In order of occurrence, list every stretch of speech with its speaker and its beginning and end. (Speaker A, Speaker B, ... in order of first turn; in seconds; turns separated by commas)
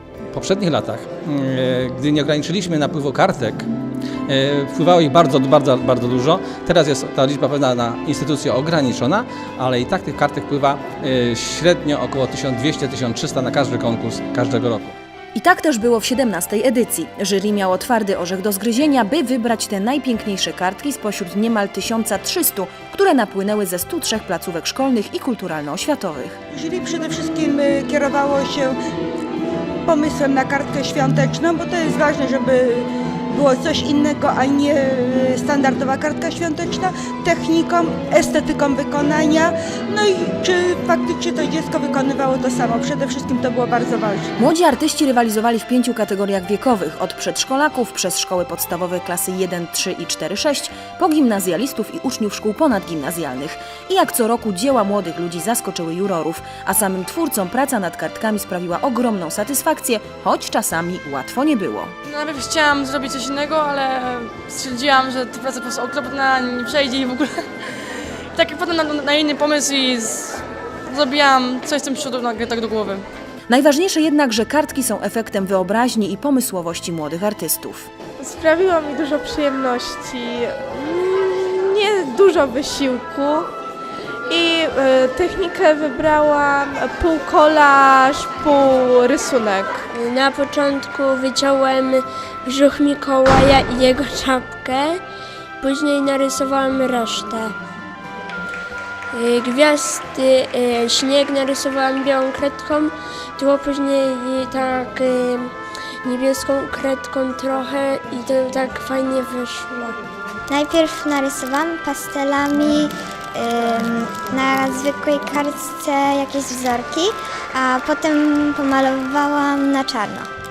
Speaker A: 0.3-3.7, Speaker A: 4.3-14.9, Speaker B: 15.3-26.4, Speaker C: 26.5-28.7, Speaker C: 29.9-44.3, Speaker B: 44.4-61.9, Speaker D: 62.1-67.4, Speaker D: 68.3-73.0, Speaker B: 73.5-77.9, Speaker E: 78.2-83.5, Speaker E: 84.3-90.0, Speaker F: 89.9-95.0, Speaker F: 95.6-97.5, Speaker F: 99.1-105.5, Speaker F: 106.0-110.0, Speaker G: 110.5-120.3